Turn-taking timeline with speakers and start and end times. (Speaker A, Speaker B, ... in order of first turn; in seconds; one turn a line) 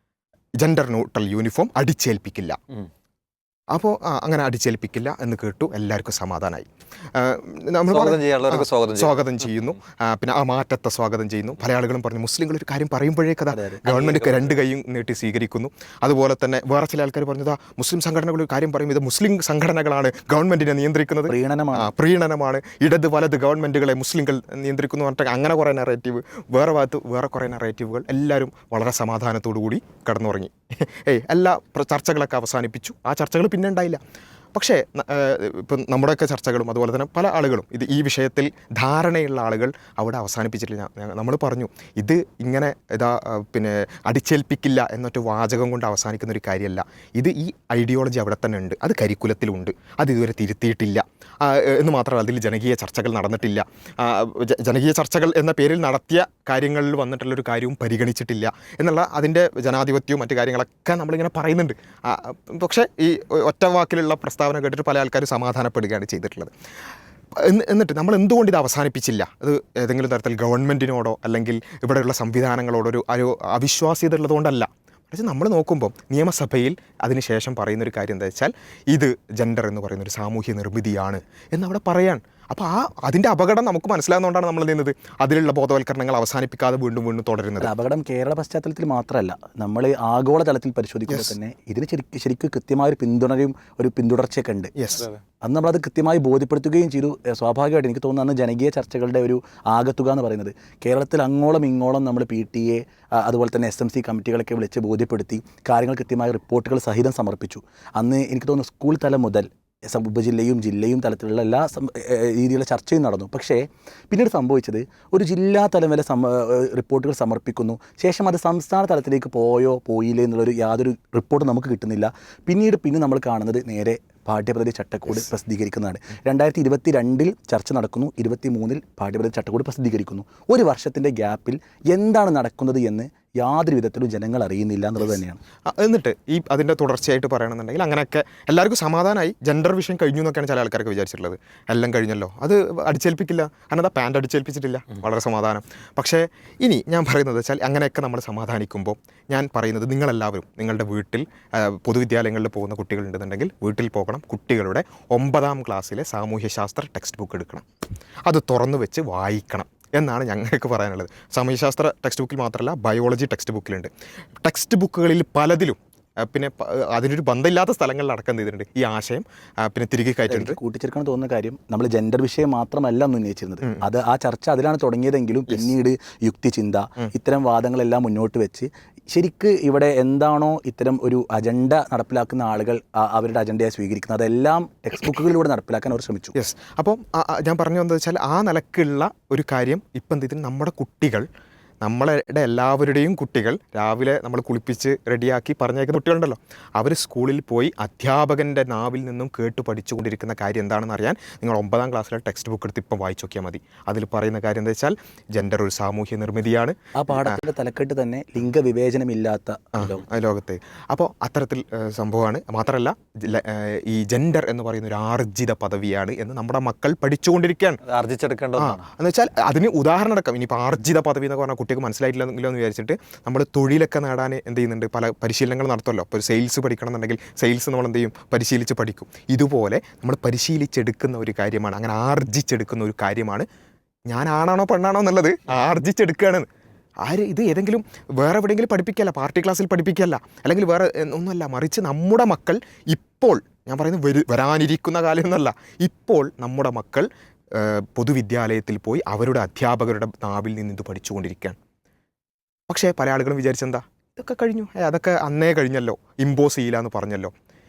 Speaker A: 0.6-2.6
Speaker A: 3.7-34.0
Speaker B: 7.9-9.1
Speaker C: 13.5-14.4
Speaker C: 21.3-21.9
Speaker A: 34.5-66.5
Speaker A: 67.3-87.7
Speaker C: 87.6-94.7
Speaker A: 91.1-91.3
Speaker A: 94.8-95.1
Speaker C: 95.4-135.4
Speaker A: 135.7-157.7
Speaker A: 158.3-170.6
Speaker C: 170.3-186.3
Speaker A: 186.3-191.3
Speaker A: 191.8-207.4
Speaker C: 206.9-210.0
Speaker A: 209.7-217.8
Speaker B: 217.8-218.8
Speaker A: 218.6-233.4
Speaker A: 234.1-236.5
Speaker A: 237.0-251.6
Speaker A: 252.7-257.3